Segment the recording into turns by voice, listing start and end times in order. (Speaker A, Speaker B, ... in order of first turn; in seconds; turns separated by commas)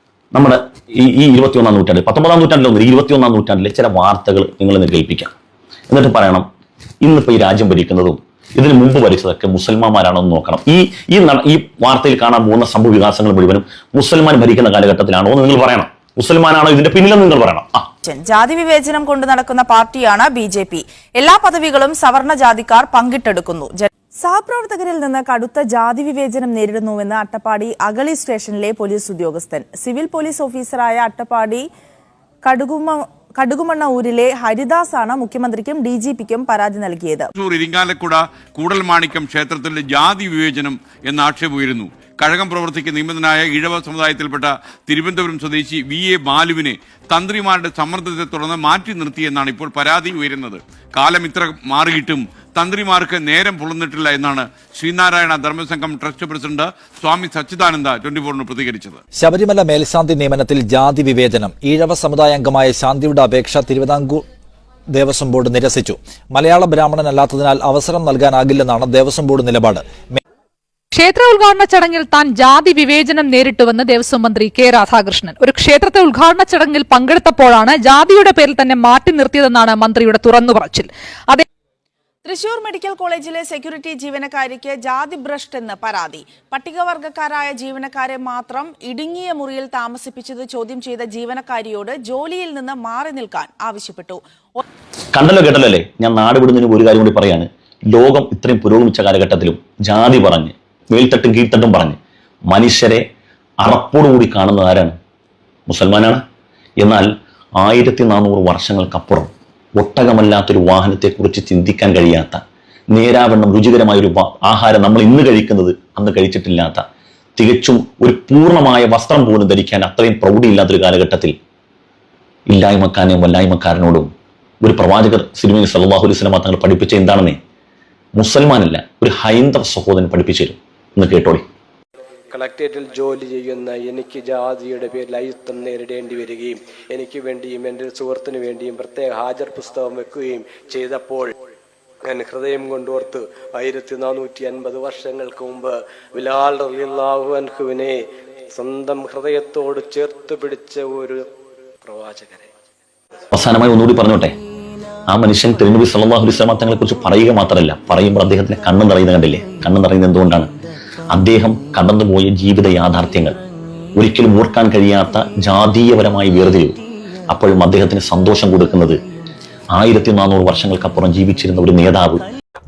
Speaker A: 0.3-5.3, Speaker A: 5.9-6.5, Speaker A: 7.0-17.9, Speaker B: 18.0-31.6, Speaker B: 32.4-37.3, Speaker C: 37.4-59.0, Speaker D: 59.1-64.2, Speaker D: 64.9-70.2, Speaker E: 70.9-81.4, Speaker B: 82.2-94.2, Speaker A: 95.1-102.0, Speaker A: 102.5-103.0, Speaker A: 103.6-104.9, Speaker A: 105.7-106.2, Speaker A: 106.8-107.1, Speaker A: 107.6-112.4, Speaker A: 112.9-116.8, Speaker A: 117.4-121.3, Speaker A: 122.5-124.1, Speaker A: 124.6-127.4, Speaker A: 128.2-131.4, Speaker F: 132.3-141.3, Speaker F: 142.0-148.0, Speaker F: 148.5-151.2, Speaker F: 151.8-152.5, Speaker A: 153.3-154.3, Speaker A: 155.1-160.5, Speaker A: 161.1-163.4, Speaker A: 163.9-166.8, Speaker A: 167.3-169.0, Speaker A: 169.7-172.3